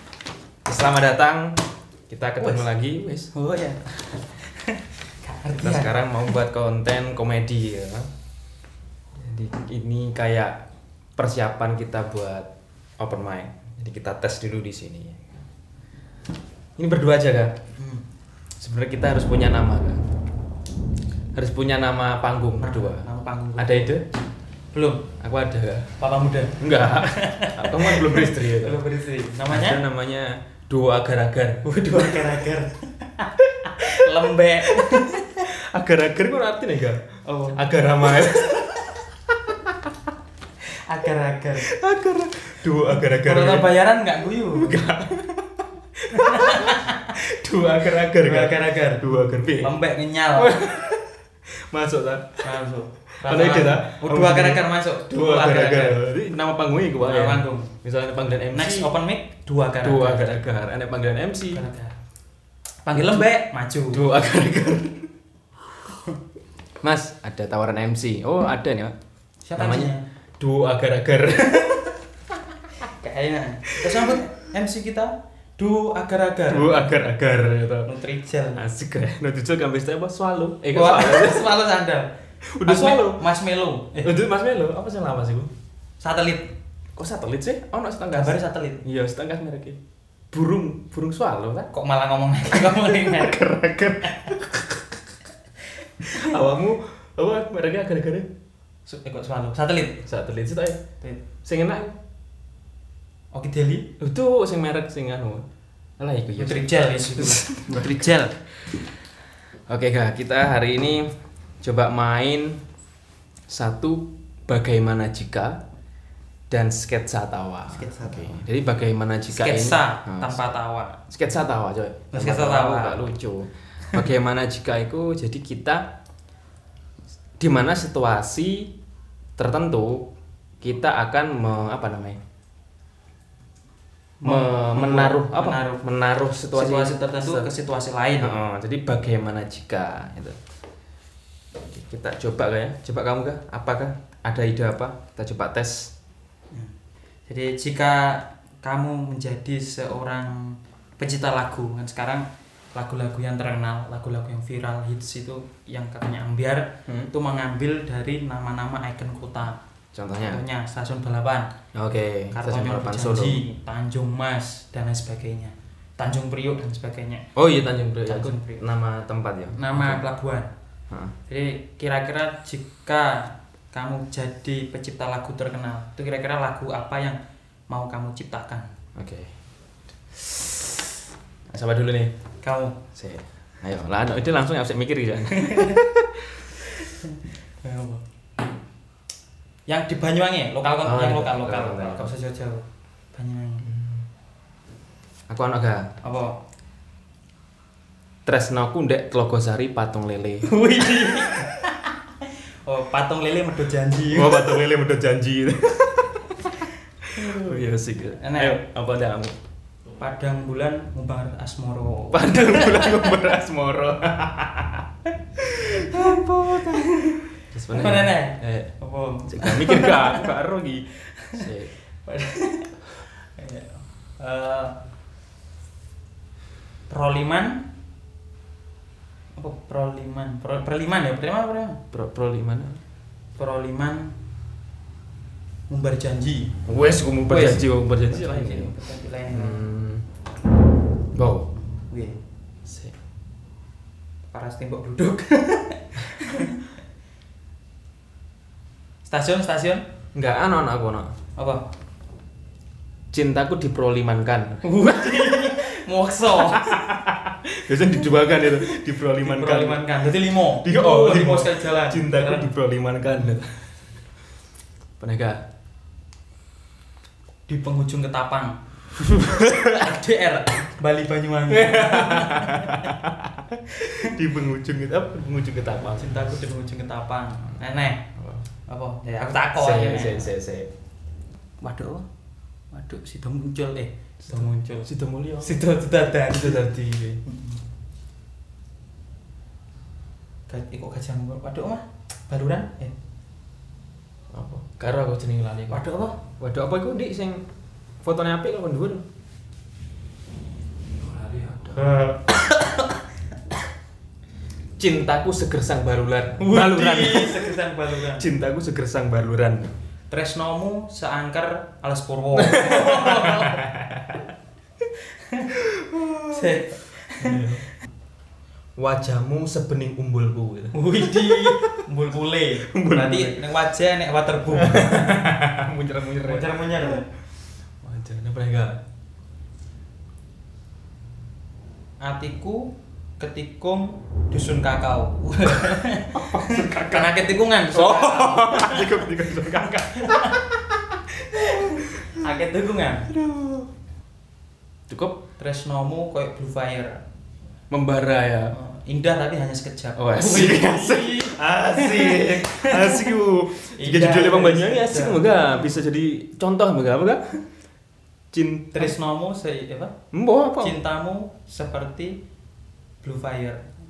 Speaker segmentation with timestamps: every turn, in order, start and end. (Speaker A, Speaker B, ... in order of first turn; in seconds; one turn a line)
Speaker A: 0.7-3.3
Speaker B: 2.4-2.7
Speaker B: 3.3-6.3
Speaker A: 5.6-8.1
Speaker A: 9.2-10.7
Speaker A: 11.2-15.3
Speaker A: 16.8-17.6
Speaker B: 17.8-18.1
Speaker A: 18.6-20.0
Speaker A: 21.4-24.1
Speaker B: 22.6-23.9
Speaker B: 24.7-25.1
Speaker A: 25.2-25.9
Speaker B: 26.0-29.8
Speaker A: 26.6-28.9
Speaker A: 29.5-32.3
Speaker B: 31.6-35.5
Speaker A: 33.8-34.1
Speaker A: 34.6-37.0
Speaker B: 37.2-37.6
Speaker A: 37.5-39.9
Speaker B: 40.7-41.7
Speaker A: 41.6-43.7
Speaker B: 43.1-44.8
Speaker A: 44.5-49.8
Speaker B: 46.1-47.1
Speaker B: 48.1-50.6
Speaker A: 50.4-52.5
Speaker B: 52.4-56.0
Speaker A: 53.2-58.9
Speaker B: 57.0-57.8
Speaker B: 58.5-60.4
Speaker A: 59.8-61.6
Speaker B: 61.5-62.0
Speaker B: 62.9-64.0
Speaker A: 63.0-63.3
Speaker A: 63.9-65.1
Speaker A: 66.8-69.0
Speaker B: 69.5-70.0
Speaker A: 69.6-72.0
Speaker B: 72.8-76.8
Speaker A: 73.7-74.2
Speaker A: 76.5-77.9
Speaker B: 77.8-78.7
Speaker A: 78.6-81.6
Speaker B: 80.7-82.1
Speaker A: 82.5-83.3
Speaker B: 82.7-84.2
Speaker A: 84.0-85.5
Speaker B: 86.0-86.5
Speaker A: 87.0-89.8
Speaker B: 88.1-88.8
Speaker A: 90.3-91.7
Speaker B: 91.7-93.4
Speaker A: 92.6-95.0
Speaker A: 96.0-98.3
Speaker B: 98.9-100.0
Speaker A: 100.0-100.8
Speaker A: 101.5-102.0
Speaker B: 103.3-103.9
Speaker A: 104.0-105.5
Speaker A: 106.0-108.1
Speaker B: 106.4-108.3
Speaker A: 109.7-111.1
Speaker A: 111.6-112.6
Speaker A: 113.5-115.6
Speaker A: 116.5-120.4
Speaker B: 117.7-118.5
Speaker B: 119.3-121.0
Speaker A: 121.1-125.8
Speaker B: 122.1-123.0
Speaker A: 127.4-128.7
Speaker A: 129.4-130.1
Speaker A: 130.6-132.2
Speaker B: 134.2-135.8
Speaker A: 134.2-137.5
Speaker B: 136.5-138.4
Speaker A: 138.2-140.4
Speaker A: 141.6-145.9
Speaker B: 147.3-159.6
Speaker A: 159.9-160.4
Speaker B: 160.2-161.5
Speaker A: 161.7-163.4
Speaker B: 162.3-167.2
Speaker A: 167.4-170.0
Speaker B: 168.0-168.6
Speaker B: 169.6-170.5
Speaker B: 171.3-177.2
Speaker B: 177.7-178.7
Speaker A: 179.0-179.3
Speaker A: 180.1-180.9
Speaker A: 181.5-182.1
Speaker B: 182.4-182.8
Speaker A: 182.9-186.5
Speaker B: 185.3-185.8
Speaker B: 186.6-188.0
Speaker B: 189.7-193.7
Speaker A: 190.8-192.1
Speaker A: 193.6-194.1
Speaker A: 195.3-195.9
Speaker B: 196.0-196.4
Speaker A: 198.3-200.5
Speaker B: 200.5-204.6
Speaker A: 204.1-209.4
Speaker B: 207.2-207.5
Speaker B: 208.2-208.6
Speaker B: 210.0-213.1
Speaker A: 212.1-214.8
Speaker A: 215.4-218.7
Speaker B: 215.4-220.3
Speaker A: 219.3-221.7
Speaker B: 221.2-221.5
Speaker B: 222.0-224.8
Speaker B: 226.9-227.6
Speaker B: 229.3-231.8
Speaker A: 231.9-232.8
Speaker B: 233.4-234.2
Speaker B: 235.7-236.6
Speaker A: 236.7-238.7
Speaker B: 237.3-239.6
Speaker A: 239.3-240.1
Speaker A: 241.2-241.5
Speaker B: 241.8-242.2
Speaker A: 242.7-242.9
Speaker B: 244.3-246.7
Speaker B: 249.1-249.8
Speaker A: 250.1-251.1
Speaker B: 251.4-251.6
Speaker A: 253.1-255.3
Speaker B: 254.6-256.9
Speaker A: 256.4-263.6
Speaker B: 259.1-262.5
Speaker A: 265.0-265.4
Speaker B: 267.5-268.6
Speaker A: 269.0-269.9
Speaker B: 269.7-272.9
Speaker A: 271.5-276.1
Speaker B: 276.0-278.1
Speaker A: 278.2-278.4
Speaker B: 278.7-280.3
Speaker A: 279.6-280.7
Speaker B: 281.6-282.1
Speaker B: 282.7-284.9
Speaker A: 284.2-285.5
Speaker B: 285.4-286.7
Speaker A: 286.3-287.2
Speaker B: 287.2-287.6
Speaker B: 290.5-292.9
Speaker A: 294.3-295.8
Speaker B: 295.7-296.2
Speaker A: 296.4-297.4
Speaker A: 298.0-299.1
Speaker A: 301.0-302.1
Speaker B: 301.8-302.9
Speaker A: 304.8-309.7
Speaker B: 306.4-308.3
Speaker B: 310.1-313.7
Speaker A: 312.3-314.3
Speaker B: 315.1-315.6
Speaker A: 315.5-316.6
Speaker B: 316.2-317.5
Speaker A: 317.2-317.6
Speaker A: 318.8-321.8
Speaker B: 320.7-325.2
Speaker A: 322.7-323.4
Speaker A: 324.5-327.0
Speaker B: 326.2-327.1
Speaker A: 327.8-328.8
Speaker B: 332.0-339.1
Speaker A: 336.1-337.2
Speaker A: 337.7-340.8
Speaker B: 339.9-340.5
Speaker B: 341.2-343.1
Speaker A: 341.3-342.3
Speaker A: 343.1-343.7
Speaker A: 344.9-345.2
Speaker B: 345.4-347.0
Speaker A: 347.7-348.6
Speaker B: 348.5-355.7
Speaker A: 350.0-357.4
Speaker A: 358.3-359.0
Speaker B: 358.7-360.0
Speaker A: 360.1-360.8
Speaker B: 360.6-362.2
Speaker B: 363.0-363.6